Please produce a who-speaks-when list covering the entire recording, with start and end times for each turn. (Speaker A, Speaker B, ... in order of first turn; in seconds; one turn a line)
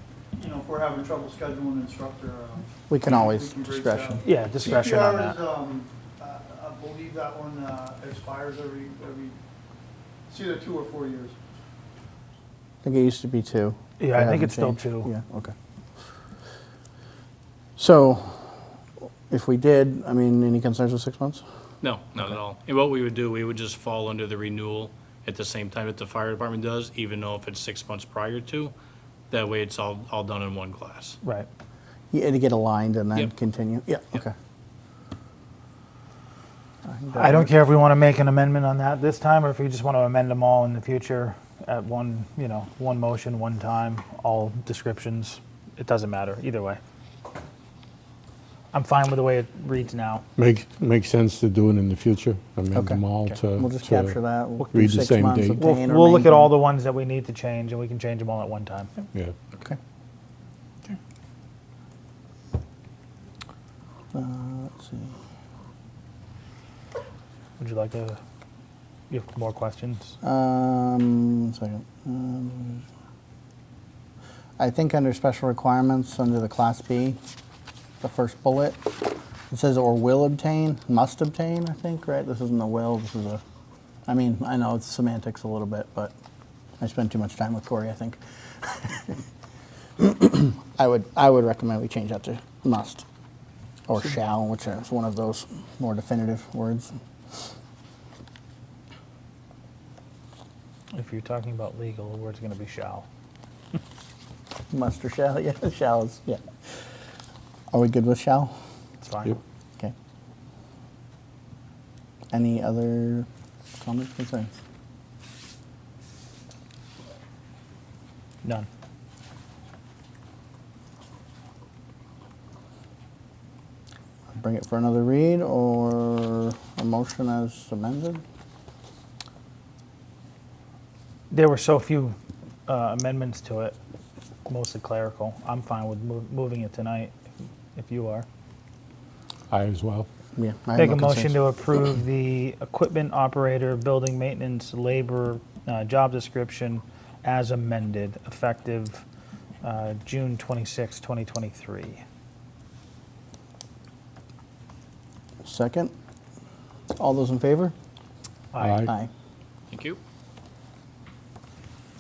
Speaker A: 0.4-9.4
Speaker B: 2.9-4.2
Speaker C: 4.2-5.4
Speaker A: 10.3-11.4
Speaker B: 12.8-15.5
Speaker C: 14.0-15.1
Speaker B: 17.8-18.6
Speaker B: 19.3-21.4
Speaker D: 21.8-28.7
Speaker D: 29.3-31.2
Speaker C: 31.2-31.5
Speaker B: 32.1-34.3
Speaker B: 36.9-37.5
Speaker C: 37.1-46.8
Speaker C: 48.7-50.2
Speaker E: 50.4-54.2
Speaker B: 52.8-56.5
Speaker E: 54.7-55.6
Speaker C: 55.6-58.9
Speaker B: 64.1-65.1
Speaker C: 67.6-68.2
Speaker C: 69.1-70.1
Speaker B: 70.2-72.8
Speaker B: 74.6-77.2
Speaker B: 78.0-78.9
Speaker B: 79.5-83.4
Speaker B: 84.1-86.1
Speaker B: 86.8-89.2
Speaker B: 90.0-93.1
Speaker B: 93.9-97.0
Speaker C: 100.9-103.1
Speaker B: 104.7-106.4
Speaker B: 107.7-108.5
Speaker C: 109.0-109.4
Speaker B: 112.3-113.3
Speaker B: 113.8-114.5
Speaker B: 124.3-128.2
Speaker C: 131.3-132.2
Speaker C: 132.7-133.8
Speaker C: 134.5-137.1
Speaker C: 137.8-138.3
Speaker E: 139.5-140.1
Speaker B: 140.4-141.4
Speaker C: 140.8-149.0
Speaker C: 149.6-152.0
Speaker B: 155.4-155.9
Speaker B: 156.9-157.7
Speaker C: 158.5-158.9
Speaker E: 158.6-158.9
Speaker B: 158.8-159.1
Speaker D: 159.7-160.0